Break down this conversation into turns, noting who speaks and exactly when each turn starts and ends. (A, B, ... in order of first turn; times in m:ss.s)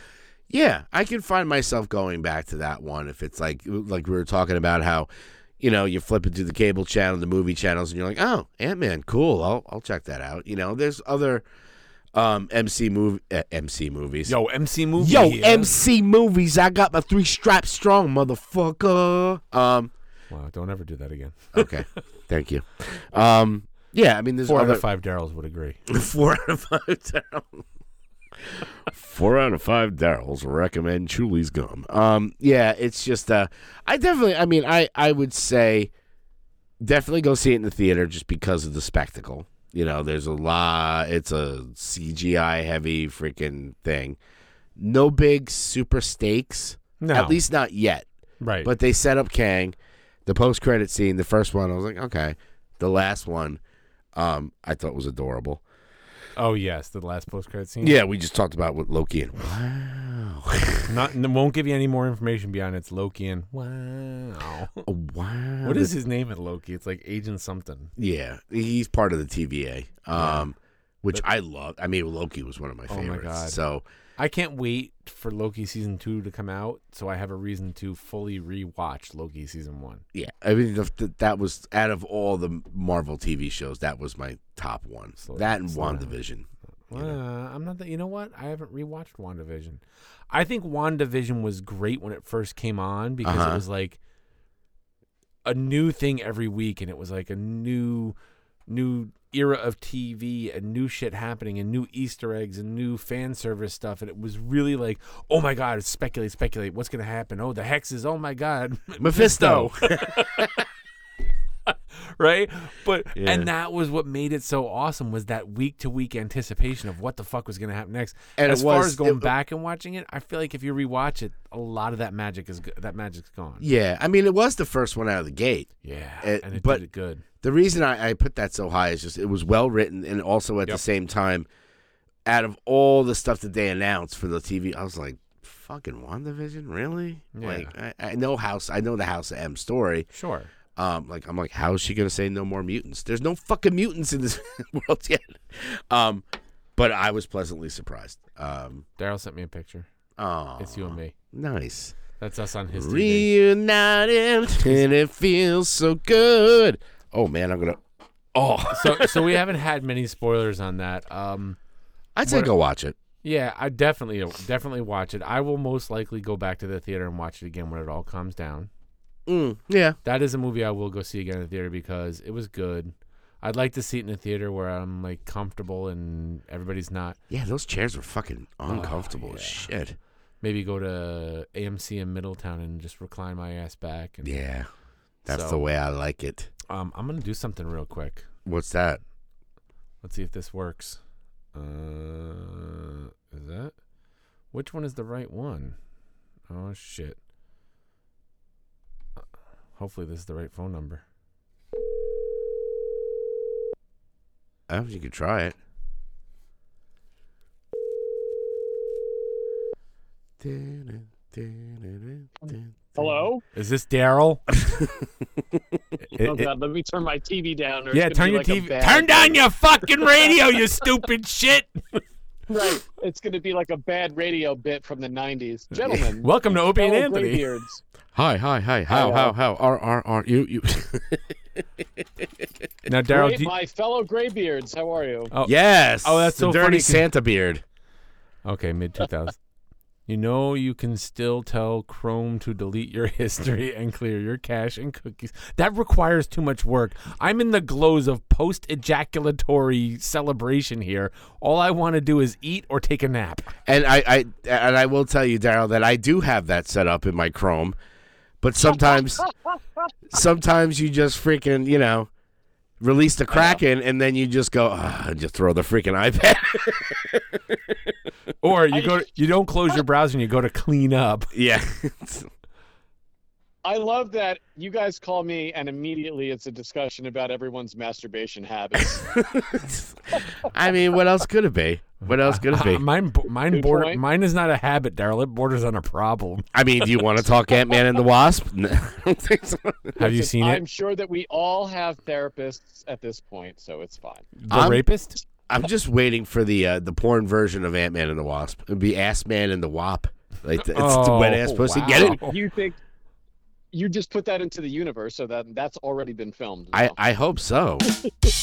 0:00.5-0:05.1 A
0:05.6-0:11.4 A
0:12.1-0:14.3 A
0:14.3-0:15.7 B
0:15.0-0:19.9 A
0:20.3-0:21.8 B
0:21.5-0:24.8 A
0:24.5-0:25.8 B
0:25.9-0:27.6 A
0:28.4-0:35.9 A
0:36.8-0:44.2 A
0:44.8-0:48.0 A
0:47.0-0:47.4 B
0:48.4-0:48.7 B
0:48.6-0:49.7 A
0:50.2-0:53.6 A
0:54.1-0:55.6 A
0:56.4-0:58.0 B
0:57.8-1:00.9 A
1:00.9-1:04.8 B
1:04.8-1:05.9 A
1:05.6-1:07.9 B
1:08.0-1:13.8 A
1:10.1-1:10.5 B
1:12.9-1:13.6 B
1:14.2-1:20.0 B
1:20.1-1:27.2 A
1:25.2-1:26.2 B
1:26.9-1:34.0 B
1:33.2-1:33.6 A
1:35.4-1:38.2 B
1:38.7-1:50.6 B
1:49.0-1:50.6 A
1:51.7-2:03.6 B
1:53.1-1:53.5 A
1:58.4-1:59.3 A
2:03.6-2:06.8 A
2:05.8-2:07.2 B
2:07.4-2:11.5 A
2:12.2-2:20.1 A
2:17.3-2:17.7 B
2:20.1-2:20.5 B
2:20.8-2:26.2 A
2:26.8-2:28.8 A
2:29.0-2:29.9 B
2:30.2-2:32.0 A
2:30.6-2:31.1 B
2:32.2-2:33.3 B
2:32.7-2:37.8 A
2:38.3-2:39.4 A
2:38.7-2:41.6 B
2:42.2-2:43.0 A
2:42.2-2:42.5 B
2:43.2-2:48.7 B
2:49.3-2:50.0 A
2:50.0-2:57.2 B
2:57.3-3:00.0 A
2:58.7-2:59.7 B
3:00.4-3:04.4 B
3:04.2-3:04.7 A
3:05.2-3:06.5 A
3:05.3-3:05.6 B
3:06.7-3:08.3 B
3:08.4-3:09.0 A
3:10.0-3:11.0 B
3:11.5-3:13.7 B
3:14.5-3:15.8 B
3:16.5-3:17.2 B
3:19.8-3:21.0 B
3:24.7-3:25.6 A
3:30.4-3:33.0 A
3:33.0-3:33.4 C
3:33.5-3:34.4 B
3:34.6-3:35.0 A
3:36.1-3:36.5 B
3:36.2-3:39.4 C
3:37.9-3:42.0 B
3:40.0-3:40.3 C
3:42.5-3:47.8 C
3:45.8-3:47.5 B
3:48.1-3:51.4 A
3:48.9-3:49.3 C
3:52.0-3:52.4 A
3:52.8-3:53.5 B
3:53.1-3:55.3 C
3:55.3-3:57.0 B
3:55.4-3:57.6 A
3:58.4-3:59.4 B
4:00.1-4:13.5 B
4:13.6-4:17.8 A
4:18.4-4:19.2 A
4:20.1-4:22.1 A
4:22.8-4:27.9 A
4:28.4-4:31.3 B
4:28.7-4:29.0 C
4:31.3-4:32.3 A
4:33.6-4:39.2 C
4:39.0-4:42.8 A
4:42.0-4:47.0 B
4:43.5-4:44.0 C
4:46.5-4:50.0 A
4:50.0-4:50.6 B
4:50.0-4:54.3 C
4:54.4-4:55.2 B
4:54.5-4:54.8 A
4:55.5-5:02.2 A
5:00.6-5:02.3 B
5:01.9-5:02.8 C
5:03.7-5:07.0 C
5:06.7-5:07.9 A